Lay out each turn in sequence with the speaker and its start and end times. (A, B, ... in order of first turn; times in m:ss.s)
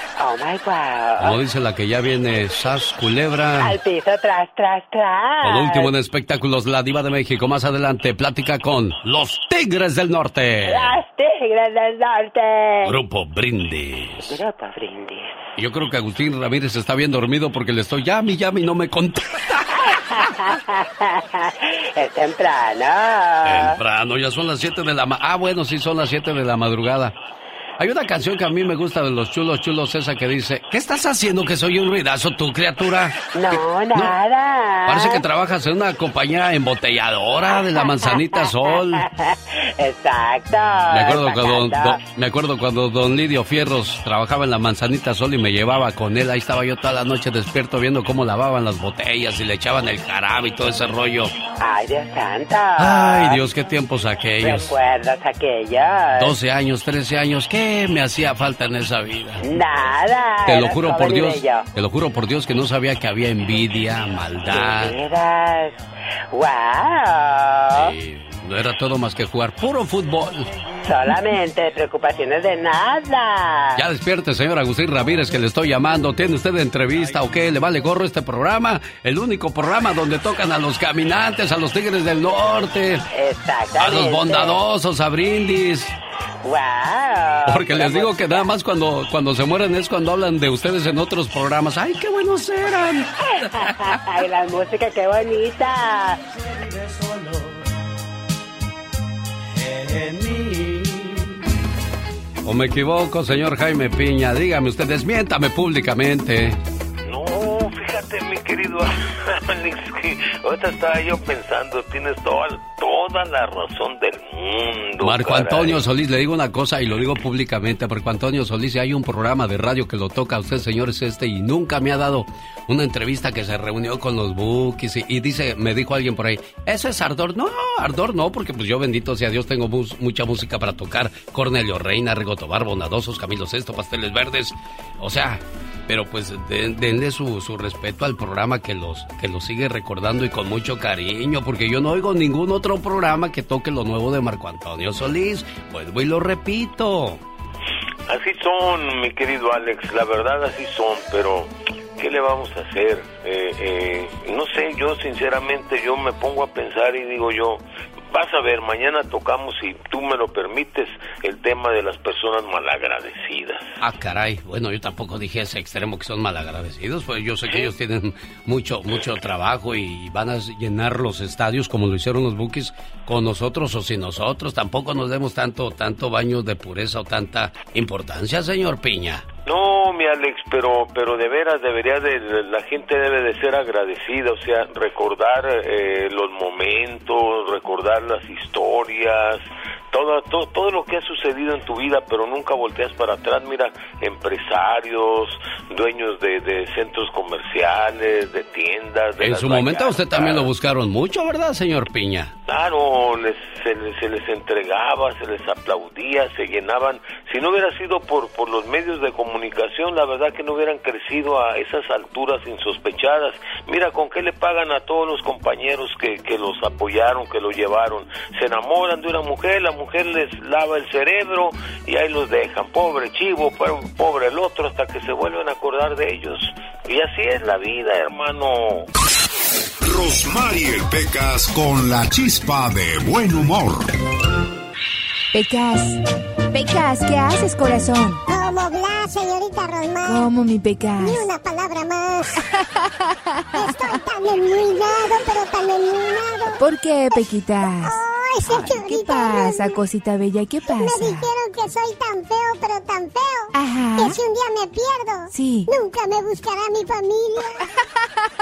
0:00.2-0:01.4 A
0:01.2-0:03.7 B
0:03.6-0:05.9 A
0:05.4-0:11.0 B
0:10.6-0:13.0 A
0:12.8-0:14.4 B
0:14.3-0:15.3 A
0:15.6-0:19.6 B
0:19.9-0:23.8 A
0:23.4-0:27.1 B
0:27.8-0:34.2 B
0:33.3-0:35.2 A
0:34.8-0:39.0 B
0:37.5-0:42.0 A
0:40.9-0:51.3 B
0:51.6-0:53.4 A
0:52.8-0:54.7 B
0:54.4-0:56.3 A
0:56.2-0:59.4 B
0:59.4-1:01.6 A
1:00.4-1:05.0 B
1:04.4-1:05.8 A
1:06.3-1:07.9 A
1:07.7-1:10.5 B
1:10.8-1:13.8 A
1:13.8-1:23.0 B
1:23.1-1:24.6 A
1:23.8-1:25.9 B
1:26.4-1:28.4 A
1:27.4-1:33.1 B
1:33.4-1:36.2 A
1:42.4-1:46.6 B
1:47.0-1:55.8 C
1:55.0-2:27.2 B
2:28.1-2:43.6 C
2:43.8-2:59.3 B
2:59.4-3:20.5 C
3:19.2-3:22.3 B
3:22.5-3:48.9 C
3:49.8-3:53.9 D
3:55.3-3:56.0 E
3:56.5-3:58.2 E
3:58.3-4:00.3 F
4:00.0-4:01.3 E
4:01.0-4:02.4 F
4:03.5-4:09.8 F
4:03.6-4:04.0 E
4:06.6-4:11.3 E
4:10.7-4:17.6 F
4:13.5-4:14.2 E
4:15.3-4:15.7 E